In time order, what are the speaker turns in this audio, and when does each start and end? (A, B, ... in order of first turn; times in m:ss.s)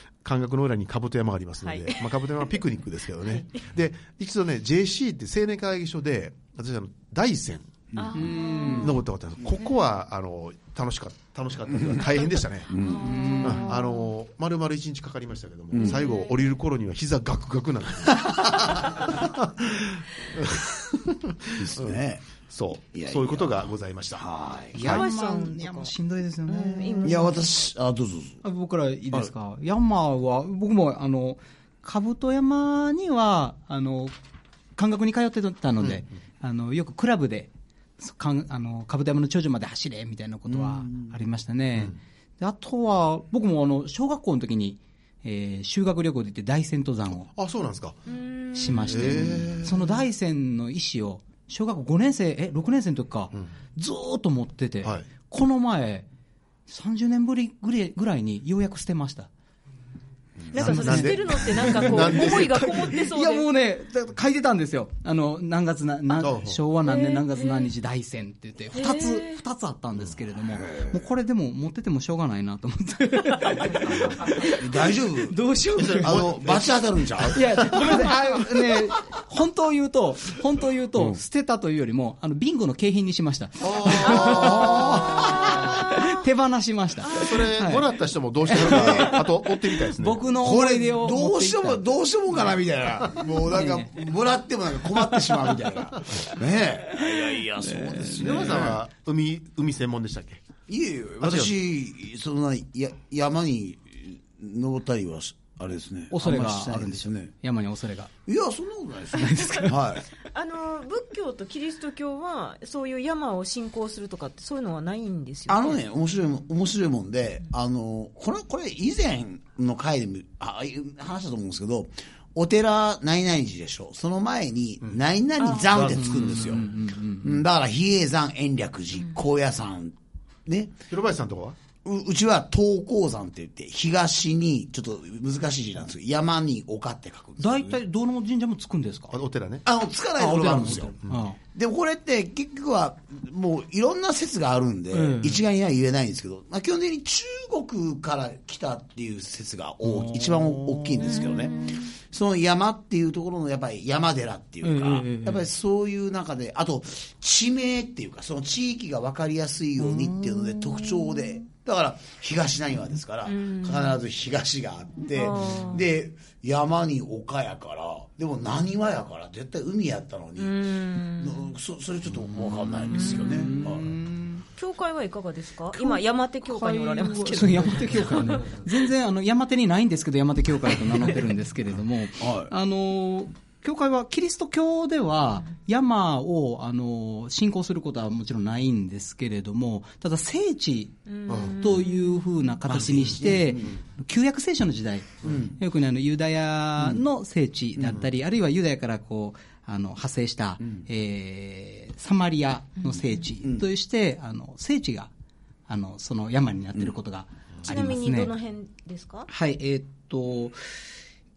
0:00.2-0:07.8 A
0:01.6-0:02.5 B
0:03.2-0:03.5 B
0:07.9-0:08.8 C
0:08.0-0:09.0 B
0:08.1-0:08.9 D
0:08.7-0:12.7 A
0:12.7-0:13.3 C
0:12.8-0:14.0 B
0:13.0-0:13.7 D
0:13.4-0:24.2 A
0:15.7-0:16.0 C
0:15.8-0:16.4 B
0:21.6-0:22.2 C
0:22.9-0:24.8 C
0:24.7-0:27.3 D
0:24.8-0:25.9 B
0:26.5-0:27.3 B
0:27.0-0:28.4 C
0:28.4-0:34.1 D
0:34.8-0:47.3 D
0:40.5-0:41.1 C
0:47.3-0:48.0 A
0:48.1-0:49.4 B
0:48.5-0:56.1 D
0:48.8-0:50.0 A
0:56.7-0:59.3 D
1:00.5-1:03.5 B
1:00.5-1:02.8 A
1:00.5-1:16.3 D
1:06.2-1:06.6 A
1:06.8-1:07.7 B
1:08.7-1:09.4 B
1:14.5-1:15.4 C
1:15.8-1:18.1 A
1:16.0-1:17.4 C
1:17.3-1:27.9 D
1:23.6-1:25.5 A
1:23.8-1:25.6 C
1:27.0-1:30.3 A
1:28.5-1:31.8 D
1:28.5-1:29.2 C
1:30.4-1:38.8 C
1:33.3-1:34.0 D
1:36.9-1:38.8 D
1:38.2-1:40.4 A
1:40.7-1:47.3 C
1:41.2-1:41.5 A
1:46.1-1:48.1 D
1:48.2-1:50.0 C
1:49.1-1:49.9 D
1:50.3-1:55.8 B
1:55.5-2:09.9 C
2:05.4-2:05.7 B
2:05.7-2:06.7 A
2:05.8-2:07.4 D
2:10.4-2:10.7 C
2:10.9-2:11.6 A
2:11.8-2:17.8 C
2:17.4-2:19.2 D
2:19.1-2:19.6 A
2:19.6-2:20.9 C
2:20.2-2:21.4 D
2:21.5-2:53.8 C
2:24.9-2:25.4 D
2:29.8-2:31.6 D
2:31.2-2:31.7 B
2:34.6-2:35.5 D
2:39.8-2:41.1 D
2:43.2-2:44.0 B
2:45.1-2:45.8 B
2:50.4-2:51.5 B
2:52.9-2:54.4 D
2:53.0-2:53.6 B
2:54.6-2:58.6 B
2:55.7-3:25.1 D
3:02.2-3:02.5 C
3:11.1-3:12.4 B
3:11.3-3:11.6 A
3:12.7-3:13.8 C
3:12.8-3:13.2 A
3:15.2-3:15.6 C
3:25.7-3:28.3 D
3:27.6-3:29.3 B
3:29.3-3:30.8 D